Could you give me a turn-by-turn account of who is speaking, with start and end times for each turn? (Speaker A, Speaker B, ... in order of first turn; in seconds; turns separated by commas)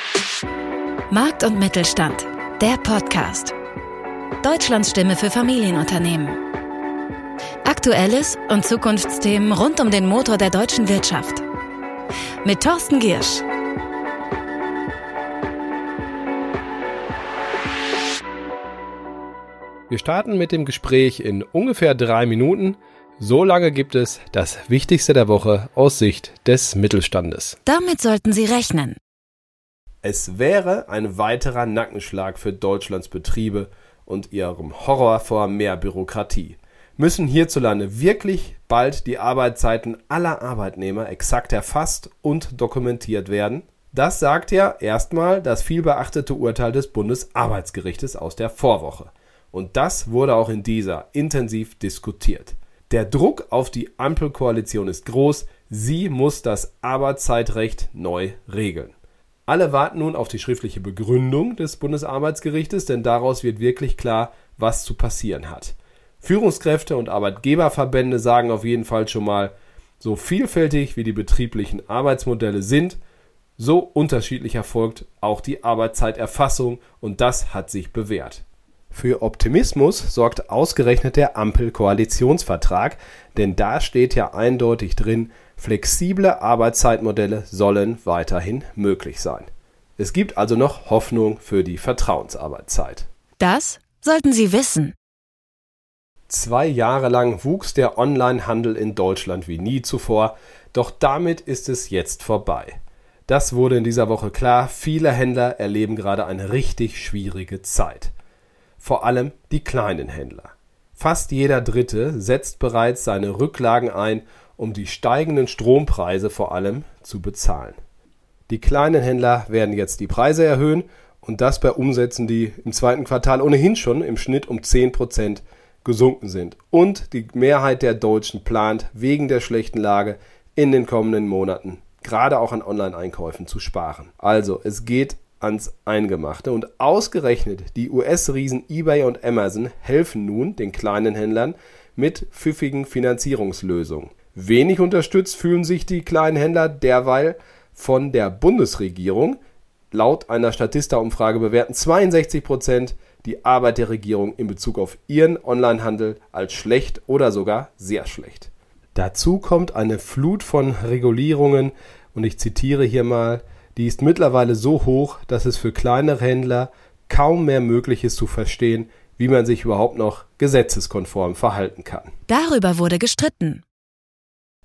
Speaker A: 1.1-3.5, Speaker A: 4.4-6.4, Speaker A: 7.6-11.4, Speaker A: 12.4-13.4, Speaker B: 19.9-27.6, Speaker A: 27.7-29.0, Speaker B: 30.0-59.0, Speaker B: 59.5-73.0, Speaker B: 73.6-93.1, Speaker A: 93.4-94.9, Speaker B: 96.3-108.1, Speaker B: 108.8-117.8, Speaker B: 118.5-149.4, Speaker B: 149.9-172.1, Speaker A: 172.3-173.6